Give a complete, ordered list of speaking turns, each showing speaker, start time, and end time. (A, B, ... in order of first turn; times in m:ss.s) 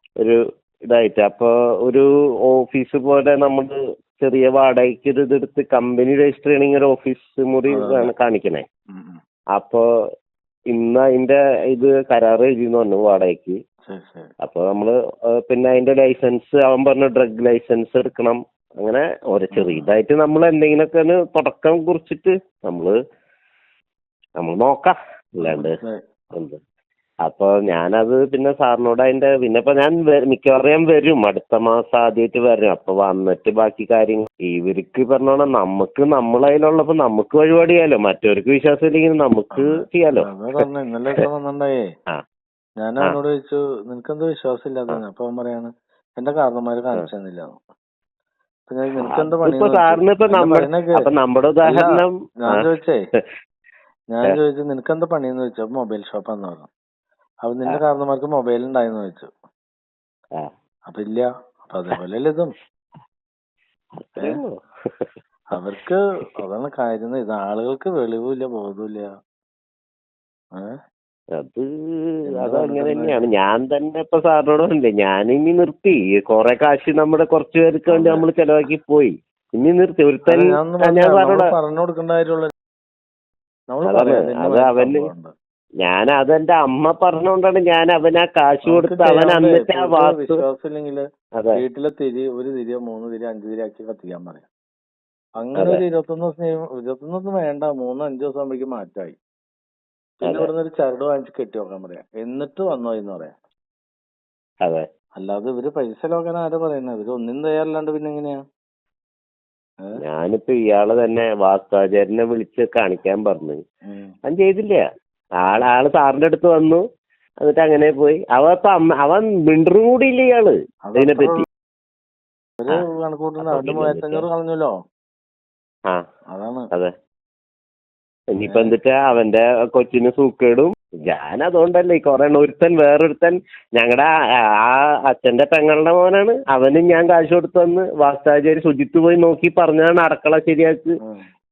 0:00.2-0:08.6 A
0:07.7-0:08.1 B
0:08.9-0:09.2 B
0:09.5-0:09.8 A
0:10.7-0:13.6 A
0:13.9-0:14.3 B
0:14.4-0:22.9 A
0:19.5-0:19.9 B
0:24.4-0:25.8 A
0:25.4-0:26.0 B
0:27.2-0:40.3 A
0:39.6-0:41.9 B
0:42.8-0:47.6 B
0:48.7-0:51.1 B
0:49.0-0:52.7 A
0:51.6-0:53.0 B
0:54.1-0:56.7 B
0:57.4-0:59.3 B
1:00.9-1:02.5 B
1:04.0-1:05.6 A
1:05.5-1:09.1 B
1:11.4-1:21.5 A
1:12.3-1:13.3 B
1:17.9-1:18.2 B
1:20.3-1:22.5 B
1:23.7-1:25.3 B
1:23.8-1:25.1 A
1:25.8-1:30.4 A
1:28.6-1:31.0 B
1:31.5-1:34.4 B
1:35.4-1:39.1 B
1:35.5-1:35.8 A
1:40.2-1:43.3 B
1:40.2-1:40.5 A
1:45.2-1:48.4 B
1:50.0-1:53.6 A
1:53.9-1:54.1 B
1:54.3-1:54.8 A
1:55.4-1:56.8 A
1:57.4-2:01.4 A
2:00.8-2:01.4 B
2:02.6-2:04.7 B
2:03.4-2:04.2 A
2:06.3-2:06.7 B
2:08.3-2:20.9 A
2:08.5-2:08.8 B